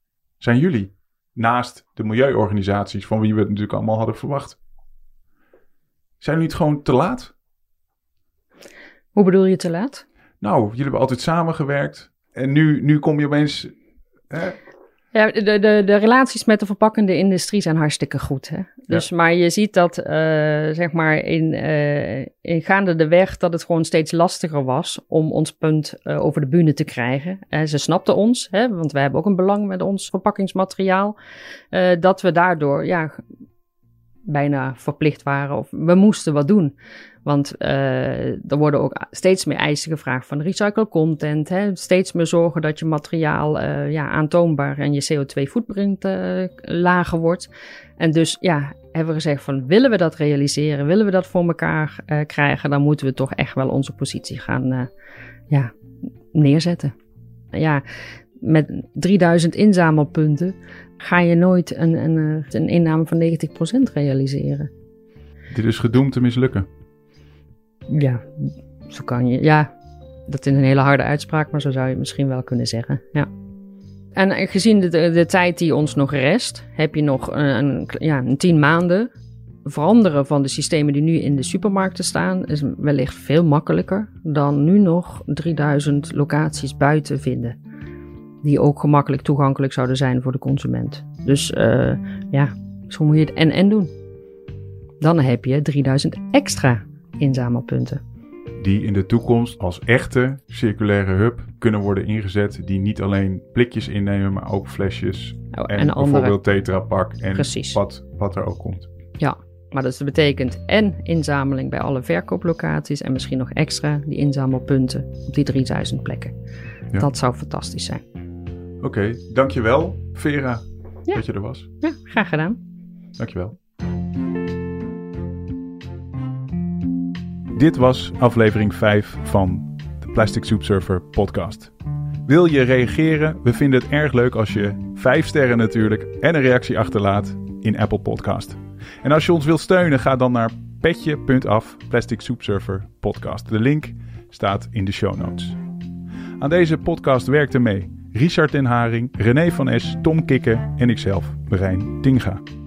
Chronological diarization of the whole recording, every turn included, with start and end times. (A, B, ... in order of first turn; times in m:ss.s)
0:00.4-0:04.6 A
0:06.2-0:07.3 A
0:09.1-0:10.0 B
0:10.4-0:13.7 A
0:14.3-0:14.6 A
0:15.1-0:31.1 B
0:31.7-0:33.2 B
0:34.3-0:54.9 B
0:56.3-0:56.9 B
0:57.5-0:57.8 B
0:58.4-1:04.7 B
1:05.5-1:06.6 A
1:07.9-1:09.7 B
1:10.3-1:13.3 B
1:14.1-1:19.1 B
1:19.6-1:27.6 B
1:28.4-1:33.9 B
1:35.0-1:38.0 B
1:38.6-1:48.9 A
1:45.5-1:46.4 B
1:47.3-1:47.8 B
1:49.2-1:56.3 B
1:57.0-1:58.0 B
1:58.8-2:01.7 A
2:01.8-2:02.6 B
2:03.2-2:03.6 A
2:07.5-2:11.7 A
2:12.2-2:25.6 A
2:26.4-2:32.4 A